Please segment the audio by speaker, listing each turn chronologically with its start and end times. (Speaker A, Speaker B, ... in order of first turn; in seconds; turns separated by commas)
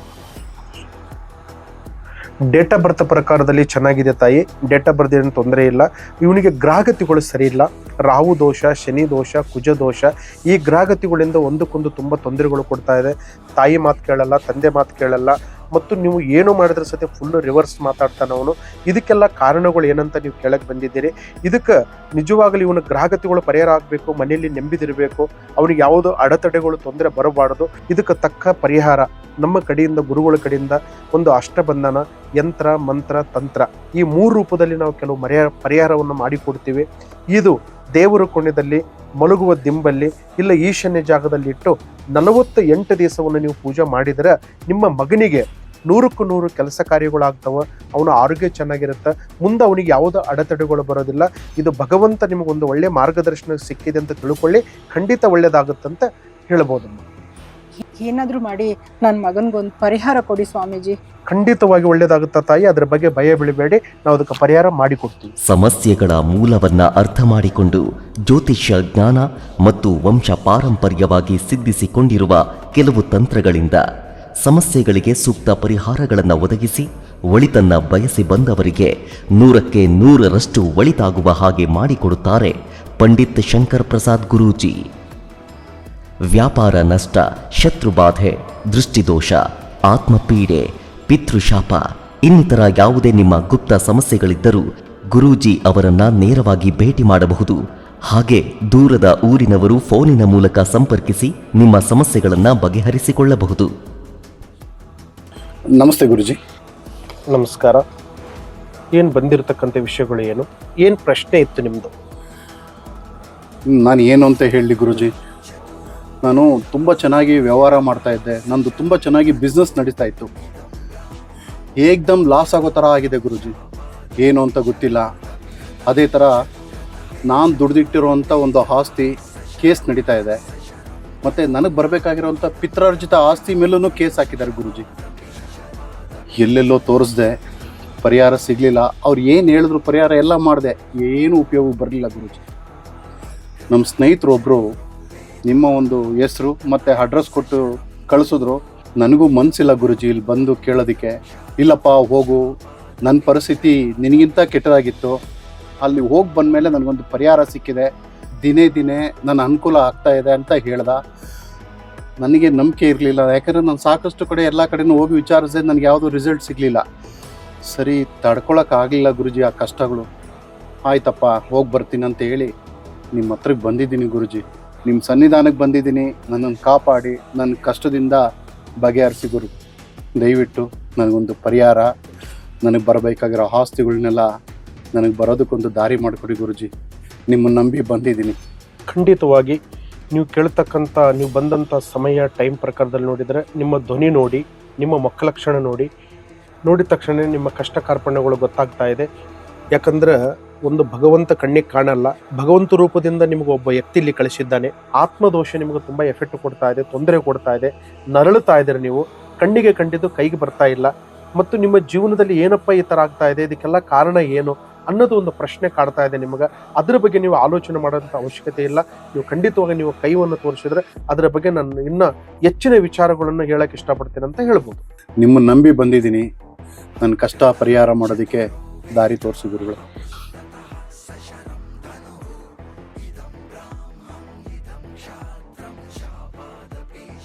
Speaker A: 2.5-57.0, Speaker B: 58.0-61.0, Speaker A: 61.3-65.3, Speaker C: 65.5-73.8, Speaker C: 74.4-84.8, Speaker C: 86.3-97.6, Speaker C: 98.1-103.7, Speaker D: 105.8-106.4, Speaker A: 107.3-107.8, Speaker A: 109.0-111.9, Speaker D: 113.7-115.1, Speaker D: 116.2-120.3, Speaker D: 121.8-123.5, Speaker D: 124.2-125.0, Speaker D: 125.9-126.3, Speaker D: 127.3-130.4, Speaker D: 131.2-134.8, Speaker D: 136.4-137.3, Speaker D: 138.0-142.4, Speaker D: 143.7-144.6, Speaker D: 145.5-152.4, Speaker D: 153.1-155.2, Speaker D: 155.8-157.9, Speaker D: 158.4-161.0, Speaker D: 162.2-166.8, Speaker D: 167.7-170.1, Speaker D: 170.9-172.5, Speaker D: 173.2-178.2, Speaker D: 178.8-179.5, Speaker D: 180.2-181.9, Speaker D: 182.7-184.3, Speaker D: 184.9-186.7, Speaker D: 187.3-188.3, Speaker A: 188.9-189.6, Speaker A: 190.1-195.9, Speaker A: 196.7-199.1, Speaker A: 199.8-200.2, Speaker A: 200.7-224.8, Speaker D: 225.2-226.2, Speaker D: 227.0-228.4, Speaker D: 228.9-229.8